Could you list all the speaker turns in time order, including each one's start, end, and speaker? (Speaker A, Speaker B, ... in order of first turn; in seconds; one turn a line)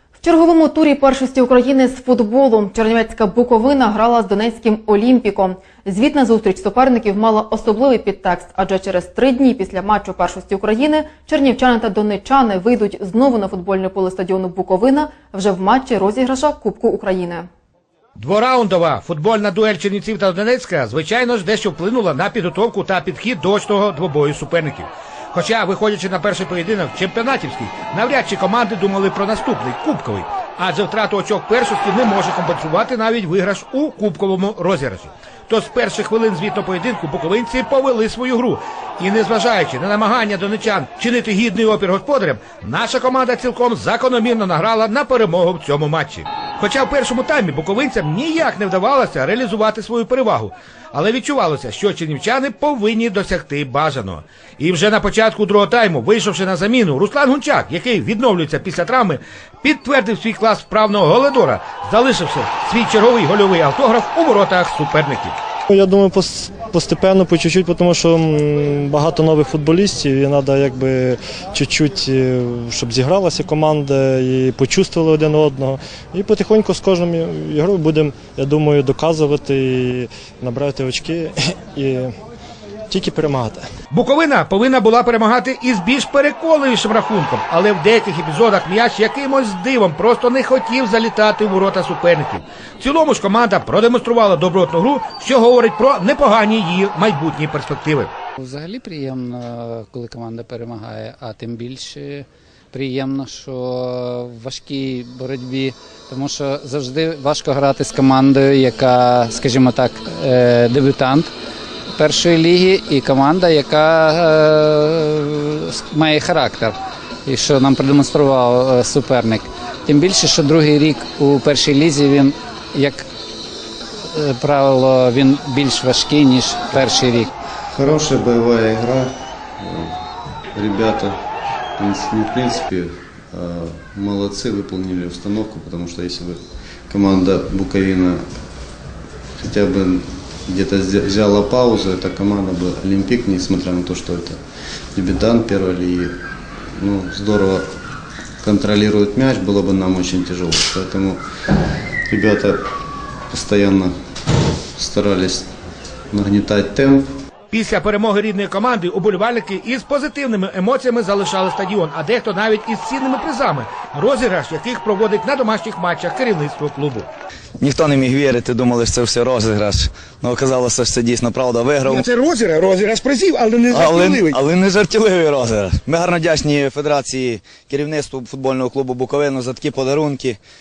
Speaker A: 0.2-17.5
Speaker B: 18.2-65.4
Speaker C: 65.7-82.1
Speaker C: 82.9-83.6
Speaker B: 83.9-98.1
Speaker D: 98.4-111.3
Speaker D: 111.9-123.0
Speaker D: 124.0-127.3
Speaker E: 127.7-129.9
Speaker E: 130.5-131.2
Speaker E: 131.8-138.2
Speaker E: 139.4-144.4
Speaker E: 144.9-146.2
Speaker E: 146.8-147.7
Speaker E: 148.4-151.2
Speaker E: 152.1-152.6
Speaker E: 153.3-153.9
Speaker E: 154.8-155.5
Speaker E: 156.1-157.2
Speaker B: 157.5-167.1
Speaker F: 167.6-172.1
Speaker B: 171.8-174.4
Speaker F: 173.7-180.4